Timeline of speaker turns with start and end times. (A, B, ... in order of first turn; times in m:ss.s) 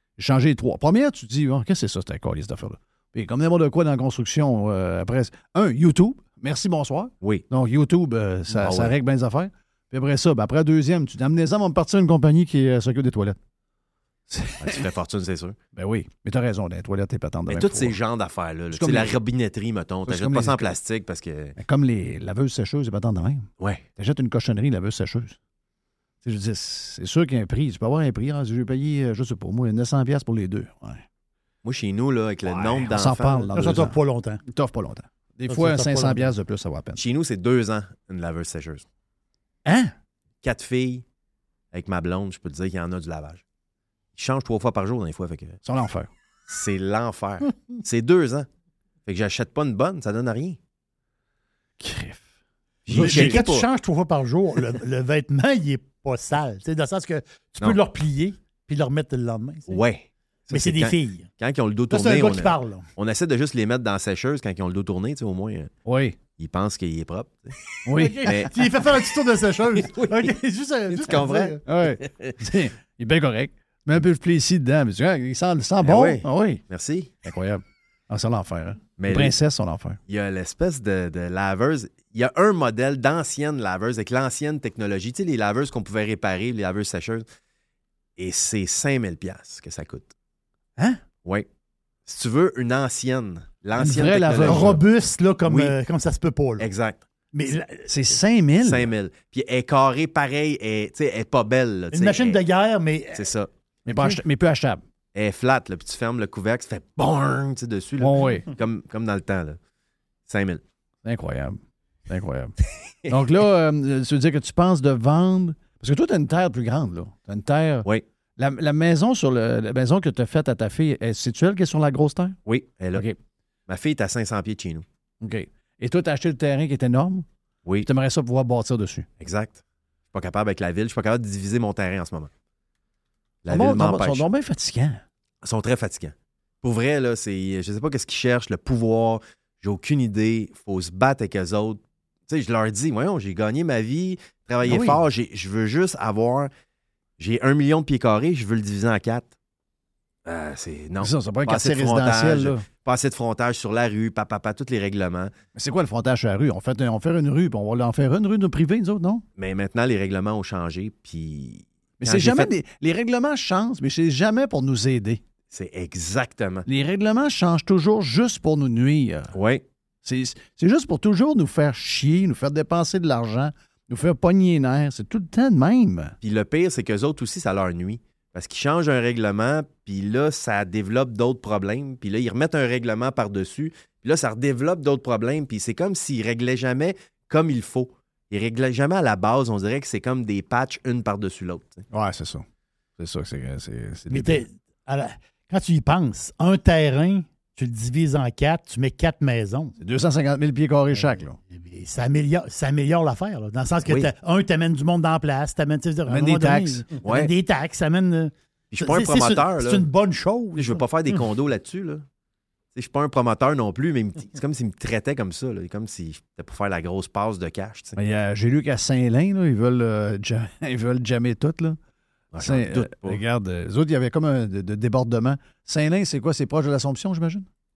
0:00.2-0:13.4 A
0:08.5-0:09.0 B
0:14.3-0:14.8 A
0:14.6-0:15.6 B
0:15.8-0:18.0 A
0:17.5-0:21.6 B
0:18.7-0:19.2 A
0:20.1-0:20.8 A
0:21.6-0:25.4 A
0:23.6-0:23.9 B
0:26.2-0:31.0 A
0:31.6-0:33.9 B
0:32.8-0:37.0 A
0:33.5-0:34.4 C
0:35.5-0:36.3 C
0:37.0-0:38.8 B
0:39.7-0:39.9 A
0:40.4-0:41.0 B
0:41.7-0:43.4 B
0:44.2-0:45.6 B
0:45.6-0:46.1 A
0:46.5-0:48.5 B
0:49.1-0:50.6 B
0:51.8-0:52.3 A
0:52.9-0:53.7 B
0:52.9-0:59.8 C
0:52.9-0:53.4 A
0:59.7-1:05.7 B
1:00.5-1:01.3 C
1:01.9-1:02.9 C
1:05.9-1:06.2 A
1:06.4-1:07.6 B
1:07.8-1:08.5 A
1:08.0-1:11.6 C
1:08.2-1:08.6 B
1:09.9-1:10.3 B
1:10.9-1:12.3 B
1:11.6-1:16.6 A
1:15.8-1:17.1 B
1:17.2-1:20.0 A
1:19.0-1:19.4 B
1:20.1-1:27.3 B
1:28.2-1:30.1 B
1:32.1-1:34.8 B
1:33.8-1:34.8 A
1:34.4-1:36.7 C
1:35.4-1:35.8 B
1:36.6-1:37.0 B
1:37.3-1:37.9 C
1:37.9-1:38.9 A
1:38.6-1:42.4 B
1:41.9-1:43.3 C
1:43.2-1:43.5 B
1:43.9-1:44.8 A
1:43.9-1:44.2 C
1:45.1-1:49.6 B
1:48.0-1:48.5 A
1:50.3-1:50.6 B
1:51.0-1:52.5 A
1:53.1-2:02.4 A
2:02.5-2:03.1 B
2:03.7-2:04.8 B
2:05.2-2:07.3 A
2:07.8-2:09.1 A
2:09.2-2:09.6 B
2:10.1-2:12.3 B
2:13.4-2:14.3 B
2:13.5-2:15.0 A
2:15.4-2:26.5 B
2:24.6-2:25.0 A
2:27.2-2:29.3 B
2:30.2-2:35.3 B
2:31.0-2:32.7 A
2:35.6-2:39.2 A
2:39.4-2:42.5 B
2:42.0-2:45.2 A
2:45.5-2:46.6 B
2:46.7-2:49.3 A
2:49.3-2:49.6 B
2:50.0-2:56.2 A
2:56.2-3:11.8 B
3:11.9-3:12.4 A
3:13.0-3:14.4 A
3:14.1-3:19.8 C
3:19.8-3:21.4 A
3:21.0-3:30.8 C
3:23.8-3:24.1 B
3:26.1-3:26.8 A
3:27.0-3:27.3 B
3:28.7-3:29.9 B
3:30.6-3:32.0 B
3:32.8-3:38.0 B
3:38.0-3:41.8 A
3:42.3-3:43.2 B
3:42.4-3:47.5 A